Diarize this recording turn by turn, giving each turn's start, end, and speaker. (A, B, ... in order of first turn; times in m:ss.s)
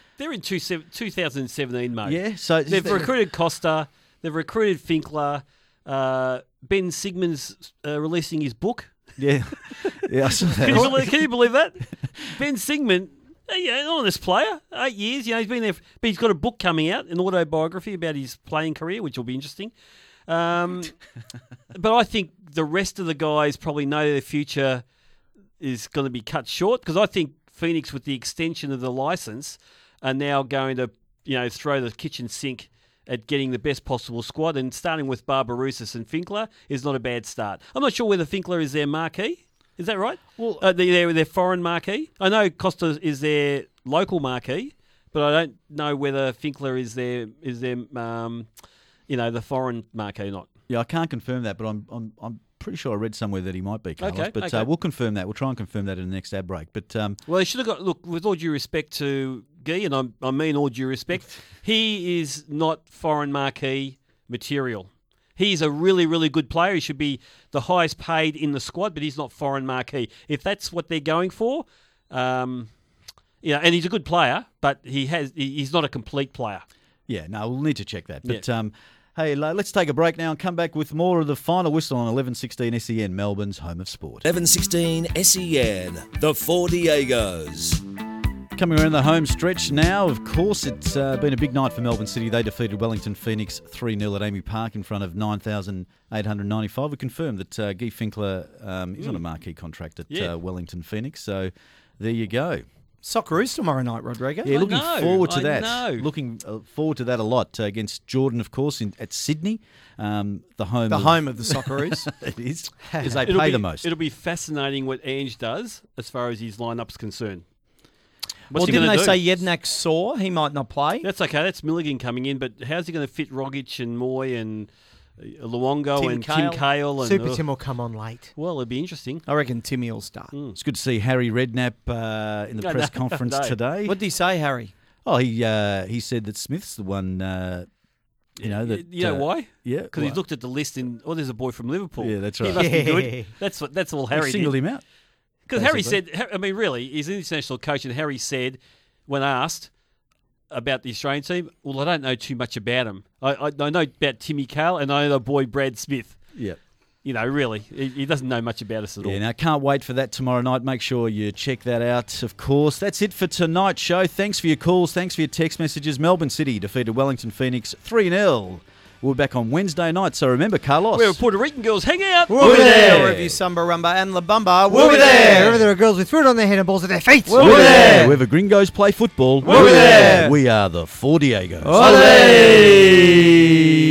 0:00.2-0:09.2 A
0:02.0-0:03.1 B
0:09.2-0:11.1 B
0:10.6-0:19.7 A
0:20.3-0:21.0 A
0:21.7-0:24.8 A
0:25.6-0:48.5 A
0:40.4-0:40.6 B
0:49.1-0:50.5 A
0:50.7-0:57.2 B
0:54.0-0:54.7 A
0:57.2-1:12.7 A
1:13.4-1:16.6 A
1:17.1-1:24.2 B
1:24.2-1:27.8 C
1:28.5-1:42.6 B
1:39.0-1:39.2 A
1:43.0-1:44.5 D
1:44.4-1:53.9 B
1:44.5-1:46.1 A
1:50.9-1:52.0 D
1:53.2-1:57.4 A
1:58.5-1:59.2 A
1:58.5-2:01.1 D
1:58.6-1:59.0 B
2:01.0-2:07.6 A
2:06.0-2:06.6 D
2:07.0-2:08.3 E
2:08.4-2:09.2 A
2:09.2-2:10.3 D
2:10.5-2:14.0 B
2:12.6-2:13.6 A
2:13.8-2:14.7 D
2:15.0-2:17.7 B
2:18.4-2:20.2 B
2:18.4-2:24.6 A
2:22.0-2:22.8 B
2:22.5-2:23.3 E
2:24.1-2:24.8 B
2:25.5-2:29.7 A
2:25.5-2:26.0 B
2:30.5-2:36.3 A
2:37.0-2:39.2 A
2:39.0-2:51.2 B
2:50.9-2:53.2 A
2:52.3-2:55.6 D
2:52.4-2:53.3 B
2:54.8-2:58.0 E
2:57.3-2:58.1 D
2:57.4-3:02.6 B
2:59.4-3:00.2 A
2:59.4-3:00.3 D
3:01.6-3:02.9 D
3:01.8-3:02.5 E